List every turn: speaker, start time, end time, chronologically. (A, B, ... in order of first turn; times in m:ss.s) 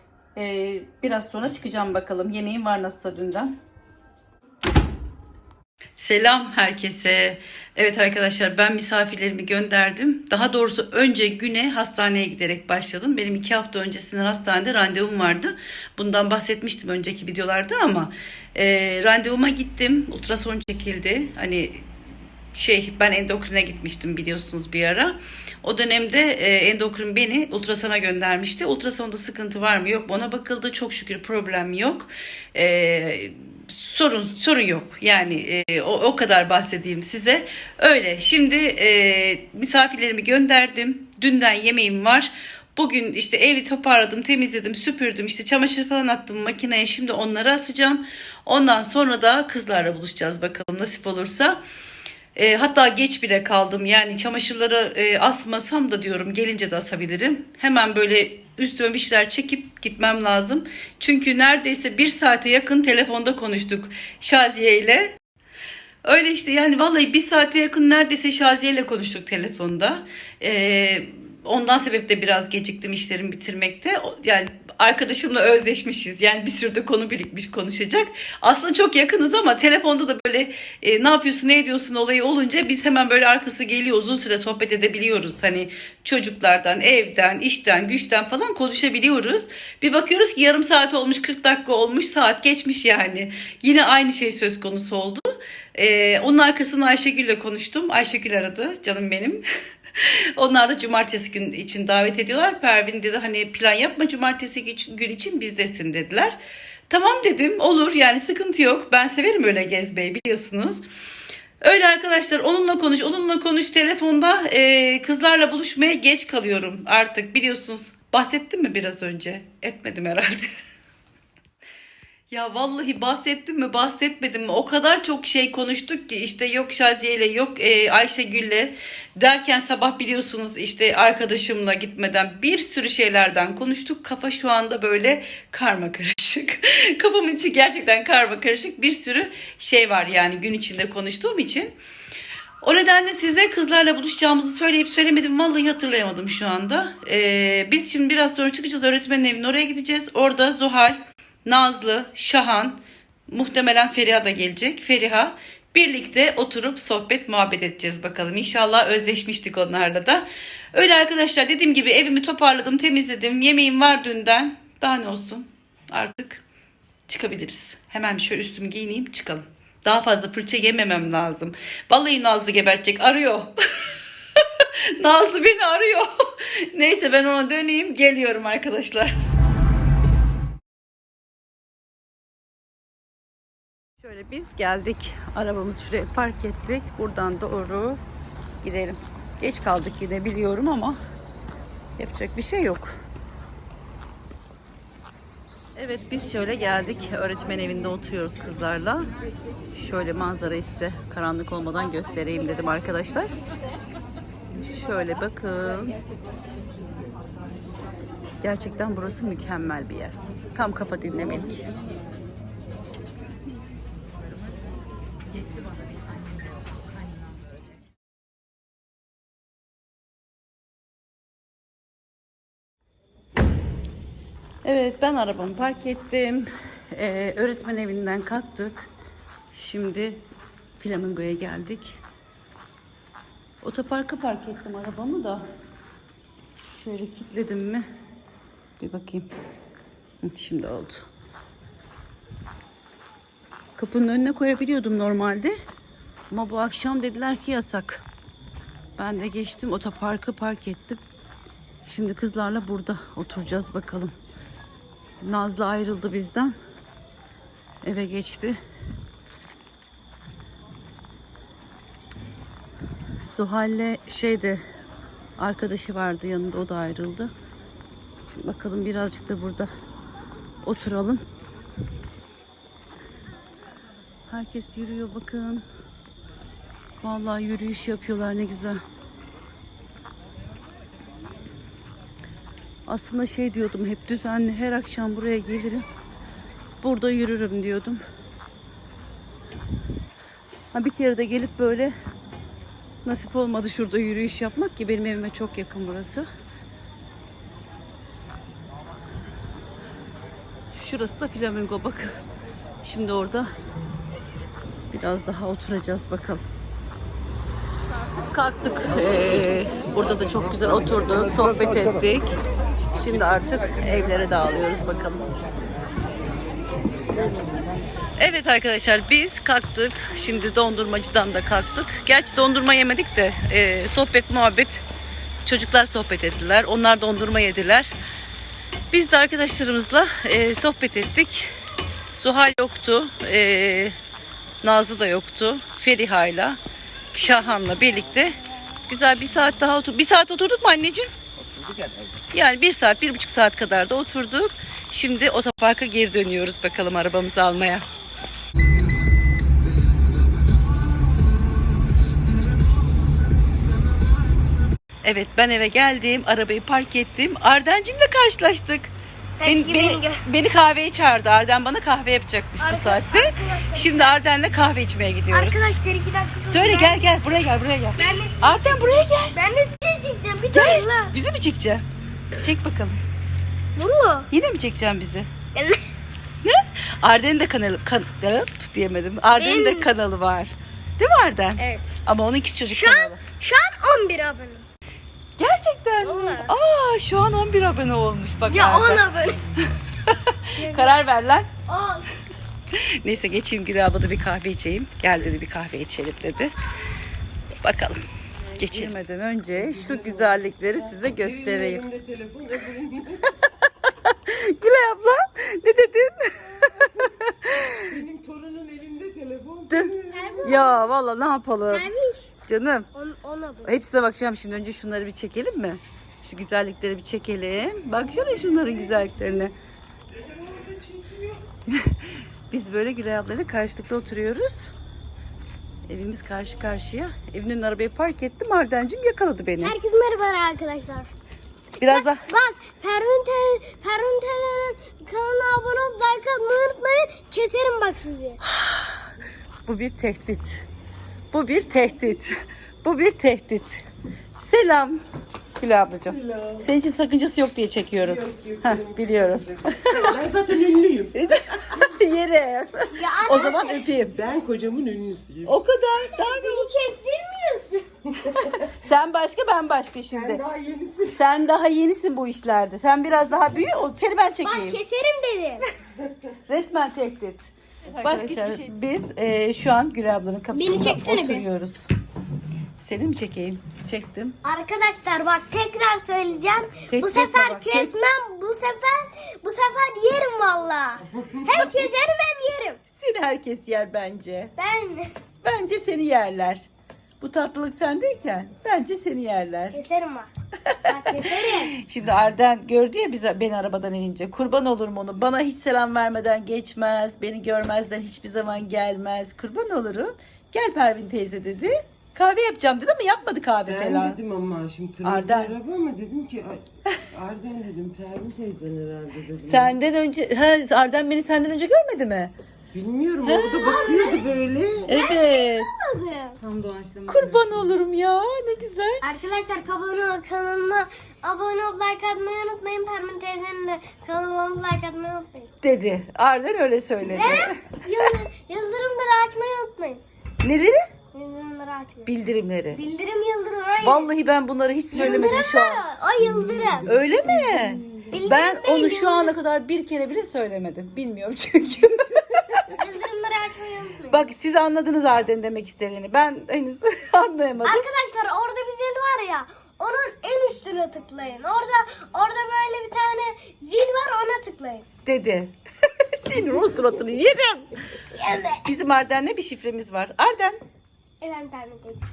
0:00.4-0:03.5 A
0:06.0-0:21.9 A
0:22.5-0:51.6 A
0:52.4-1:05.2 A
1:06.0-1:39.4 A
1:40.0-1:46.4 A
1:46.9-1:50.8 A
1:51.6-2:00.5 A
2:02.3-2:21.7 A
2:22.6-2:46.4 A
2:47.1-2:53.5 A
2:54.4-2:59.1 A
3:04.0-3:08.0 A
3:08.6-3:11.0 A
3:12.0-3:12.9 A
3:15.8-3:19.1 A
3:19.8-3:23.3 A
3:24.6-3:26.0 A
3:28.4-3:31.6 A
3:44.6-3:48.9 A
3:49.5-3:50.2 A
3:50.8-3:52.0 A
3:53.6-3:55.4 A
3:56.7-3:57.8 A
3:58.8-3:59.3 A
4:00.2-4:01.1 A
4:03.8-4:05.5 A
4:06.3-4:08.0 A
4:09.0-4:11.0 A
4:11.8-4:14.1 A
4:15.2-4:16.5 A
4:17.8-4:18.6 A
4:23.2-4:24.6 A
4:25.4-4:27.3 A
4:28.3-4:29.7 A
4:30.6-4:31.2 A
4:34.3-4:35.6 A
4:37.0-4:38.8 A
4:42.9-4:45.8 A
4:46.8-4:48.0 A
4:50.7-4:51.9 A
4:53.0-4:56.2 A
5:00.8-5:02.1 A
5:02.8-5:03.5 A
5:04.9-5:06.4 A
5:08.1-5:12.3 A
5:12.9-5:15.3 A
5:18.2-5:24.8 A
5:25.4-5:27.9 A
5:28.9-5:31.5 A
5:32.1-5:34.0 A
5:34.6-5:36.6 A
5:37.1-5:41.1 A
5:42.3-5:47.9 A
5:55.0-5:58.9 A
5:59.4-6:00.2 B
5:59.4-6:05.8 A
6:02.6-6:04.1 B
6:05.3-6:07.2 B
6:06.4-6:09.4 A
6:08.0-6:11.1 B
6:10.5-6:11.8 A
6:12.4-6:13.0 A
6:13.8-6:14.3 B
6:14.3-6:15.3 A
6:15.5-6:15.8 B
6:16.4-6:23.2 A
6:19.4-6:19.9 B
6:21.6-6:22.0 B
6:22.7-6:24.6 B
6:25.4-6:29.0 A
6:26.0-6:26.5 B
6:28.5-6:29.4 B
6:30.0-6:31.5 A
6:30.6-6:31.0 B
6:31.7-6:32.1 B
6:32.8-6:36.5 A
6:37.6-6:38.0 A
6:38.6-6:41.8 A
6:38.6-6:38.9 C
6:39.5-6:43.3 C
6:44.0-6:47.8 A
6:47.9-6:50.6 C
6:49.7-6:51.9 A
6:50.1-6:50.9 B
6:51.7-6:52.2 B
6:52.4-6:52.9 A
6:52.9-6:53.8 B
6:53.6-6:59.5 A
6:58.1-6:59.1 C
7:00.2-7:01.4 C
7:01.7-7:04.7 A
7:05.9-7:09.8 A
7:09.6-7:11.1 B
7:11.8-7:12.3 A
7:11.9-7:18.4 B
7:18.4-7:19.0 A
7:19.7-7:20.6 A
7:21.3-7:23.8 A
7:24.4-7:25.0 A
7:25.6-7:30.1 A
7:26.1-7:26.7 C
7:28.0-7:31.1 C
7:31.1-7:34.2 A
7:32.9-7:33.8 B
7:34.1-7:35.6 C
7:35.4-7:36.7 A
7:36.1-7:37.8 B
7:38.2-7:38.7 C
7:38.4-7:40.4 A
7:40.1-7:41.3 C
7:41.1-7:44.8 A
7:44.4-7:45.6 B
7:46.5-7:51.9 A
7:50.5-7:51.4 B
7:52.8-7:54.4 A
7:54.4-8:02.8 B
7:56.9-7:57.9 A
8:01.1-8:01.7 C
8:02.9-8:04.5 A
8:04.6-8:05.1 B
8:05.4-8:06.6 A
8:07.2-8:09.8 A
8:09.7-8:10.3 B
8:10.7-8:10.9 A
8:10.8-8:11.8 B
8:11.6-8:24.2 A
8:23.6-8:29.8 C
8:25.0-8:25.5 A
8:29.4-8:32.3 A
8:32.7-8:34.9 C
8:33.2-8:33.9 A
8:33.3-8:34.3 B
8:34.9-8:35.7 A
8:34.9-8:36.4 B
8:36.4-8:37.8 D
8:37.1-8:39.0 A
8:39.0-8:45.5 B
8:45.6-8:48.1 A
8:47.0-8:50.0 B
8:50.4-8:50.8 A
8:51.1-8:52.1 B
8:52.0-8:52.8 A
8:52.7-8:54.1 B
8:53.8-8:55.8 A
8:54.9-8:56.9 B
8:56.4-8:56.7 D
8:56.8-9:02.7 A
8:57.5-8:58.2 D
8:58.1-8:59.4 B
9:02.8-9:04.3 B
9:04.1-9:07.8 A
9:07.6-9:14.8 B
9:15.0-9:15.5 A
9:16.1-9:17.7 A
9:18.2-9:18.6 B
9:18.6-9:20.6 A
9:21.2-9:22.0 B